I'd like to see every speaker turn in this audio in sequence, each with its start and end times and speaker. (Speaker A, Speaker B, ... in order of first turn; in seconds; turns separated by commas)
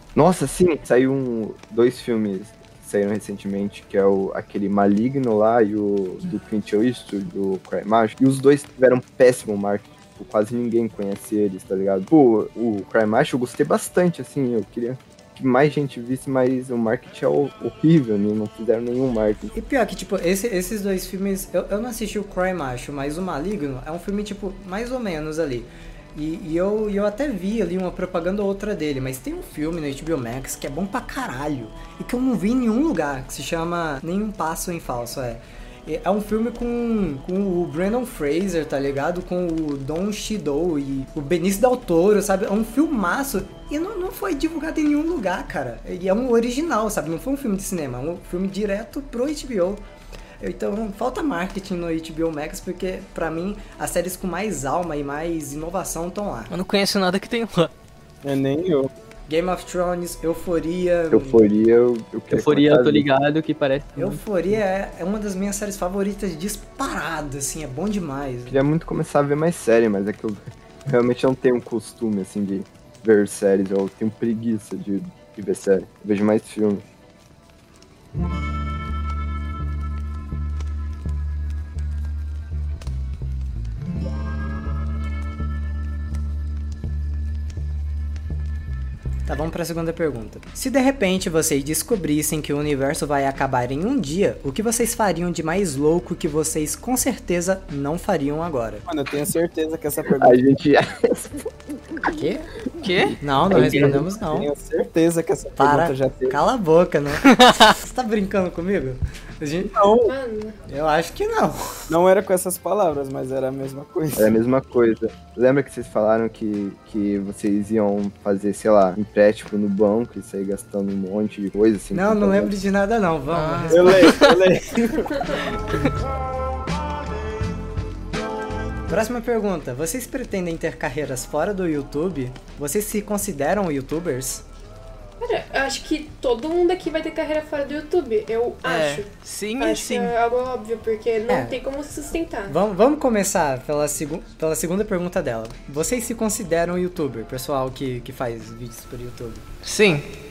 Speaker A: 0.1-19.5, Speaker B: 19.6-49.8, Speaker B: 50.4-56.5, Speaker C: 56.5-57.7, Speaker D: 58.2-58.9, Speaker B: 59.3-61.4, Speaker A: 61.1-63.1, Speaker E: 62.3-64.2, Speaker B: 64.0-68.6, Speaker A: 68.5-76.8, Speaker B: 89.3-98.8, Speaker D: 98.9-100.4, Speaker A: 100.2-101.5, Speaker B: 102.0-102.5, Speaker C: 102.8-103.2, Speaker B: 103.2-104.5, Speaker D: 103.5-106.4, Speaker E: 103.5-104.0, Speaker B: 105.6-109.7, Speaker D: 109.6-110.1, Speaker F: 110.0-110.6, Speaker B: 110.7-111.9, Speaker D: 111.9-114.4, Speaker A: 114.2-122.5, Speaker B: 121.9-124.3, Speaker C: 123.3-124.3, Speaker D: 123.7-125.7, Speaker F: 125.1-125.4, Speaker B: 128.9-134.4, Speaker F: 135.2-139.1, Speaker C: 138.6-140.1, Speaker F: 139.6-142.6, Speaker B: 141.3-141.6, Speaker B: 142.5-149.5, Speaker C: 149.6-150.1